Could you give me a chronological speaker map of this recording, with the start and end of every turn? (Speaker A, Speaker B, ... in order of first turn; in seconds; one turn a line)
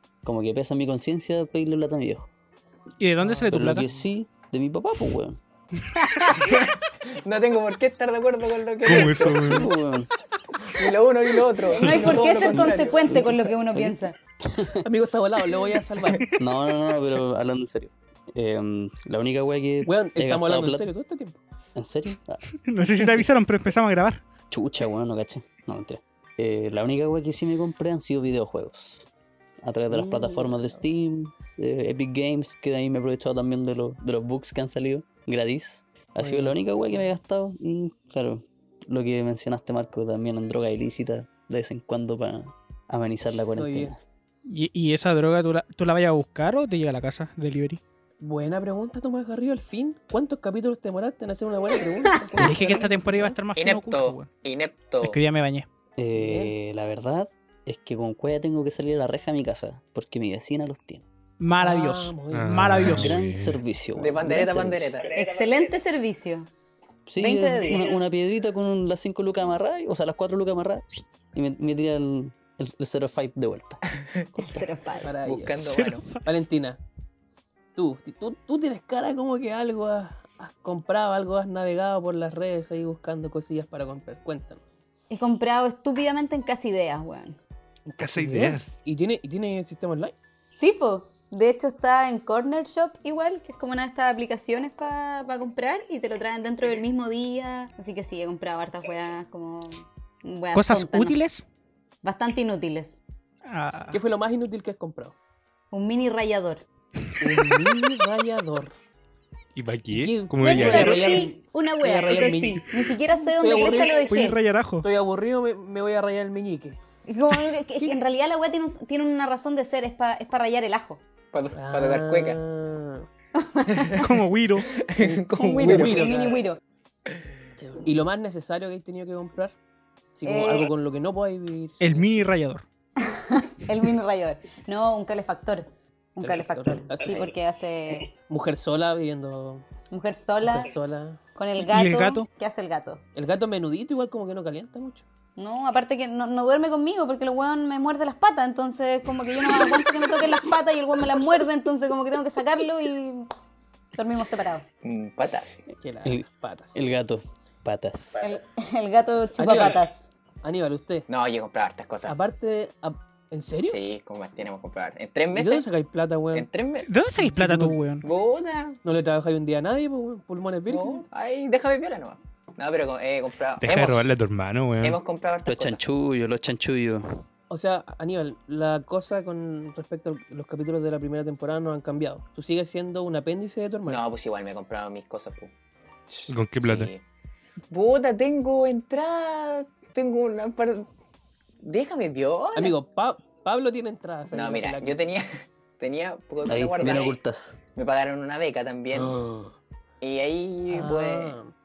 Speaker A: 0.2-2.3
Speaker B: 3.0-3.9
Speaker C: 3.2-3.9
Speaker A: 3.5-5.4
Speaker D: 6.0-6.4
Speaker E: 6.3-9.7
Speaker F: 8.8-9.7
Speaker A: 8.9-10.1
Speaker E: 10.6-13.2
Speaker D: 11.7-14.2
Speaker A: 13.1-14.8
Speaker C: 14.8-16.3
Speaker A: 16.4-20.9
Speaker C: 19.8-21.4
Speaker A: 21.8-22.4
Speaker B: 22.6-24.2
Speaker A: 24.5-29.1
Speaker A: 29.6-44.0
Speaker C: 29.9-30.8
Speaker C: 36.2-37.0
Speaker C: 43.5-43.9
Speaker B: 44.5-47.8
Speaker C: 48.2-53.4
Speaker B: 52.4-54.3
Speaker E: 53.5-55.2
Speaker B: 55.0-55.7
Speaker A: 56.0-61.0
Speaker C: 56.1-56.5
Speaker B: 61.4-63.1
Speaker C: 61.6-62.8
Speaker F: 62.3-63.6
Speaker A: 62.8-64.9
Speaker E: 63.9-65.1
Speaker D: 65.1-66.5
Speaker A: 67.0-73.8
Speaker D: 67.2-68.0
Speaker E: 74.0-74.6
Speaker D: 74.4-75.1
Speaker C: 75.0-75.6
Speaker E: 75.2-76.2
Speaker B: 75.6-76.2
Speaker C: 76.2-76.8
Speaker C: 77.8-84.6
Speaker D: 85.1-87.4
Speaker C: 87.9-90.1
Speaker F: 88.0-88.8
Speaker D: 90.5-101.2
Speaker B: 100.5-101.5
Speaker D: 102.0-103.0
Speaker B: 103.5-104.0
Speaker C: 103.9-105.1
Speaker D: 105.7-106.6
Speaker C: 107.2-108.7
Speaker F: 109.5-111.2
Speaker C: 109.9-114.2
Speaker D: 110.4-114.4
Speaker B: 114.1-114.9
Speaker C: 114.8-116.8
Speaker D: 117.0-121.0
Speaker E: 121.3-122.4
Speaker C: 121.5-123.0
Speaker D: 123.4-124.0
Speaker B: 124.0-124.8
Speaker E: 124.7-126.3
Speaker C: 125.0-126.4
Speaker D: 125.3-126.6
Speaker C: 127.6-129.5
Speaker C: 130.2-132.2
Speaker D: 130.2-130.7
Speaker B: 131.8-132.6
Speaker D: 133.0-138.1
Speaker C: 136.2-137.3
Speaker C: 138.2-139.7
Speaker D: 139.9-140.7
Speaker C: 140.4-141.2
Speaker D: 141.3-143.0
Speaker B: 141.6-142.2
Speaker C: 143.1-145.0
Speaker D: 145.4-153.3
Speaker D: 153.9-154.6
Speaker E: 154.8-155.7
Speaker C: 155.8-156.8
Speaker A: 156.0-158.2
Speaker D: 158.2-160.1
Speaker C: 159.3-159.9
Speaker C: 160.4-161.0
Speaker E: 161.1-162.2
Speaker C: 162.0-163.8
Speaker E: 163.7-165.7
Speaker C: 165.3-166.5
Speaker E: 166.3-166.9
Speaker B: 166.8-168.0
Speaker C: 167.2-167.8
Speaker E: 168.0-168.8
Speaker C: 168.8-171.0
Speaker E: 170.7-174.1
Speaker F: 173.6-175.0
Speaker E: 174.8-175.8
Speaker A: 175.4-177.2
Speaker C: 177.5-184.0
Speaker E: 183.9-185.5
Speaker E: 186.1-187.0
Speaker F: 186.3-186.9
Speaker E: 187.7-190.9
Speaker E: 191.6-192.8
Speaker C: 192.5-195.0
Speaker E: 194.3-197.2
Speaker A: 196.4-197.6
Speaker E: 197.8-199.2
Speaker C: 199.0-199.5
Speaker E: 200.0-201.3
Speaker C: 200.7-201.5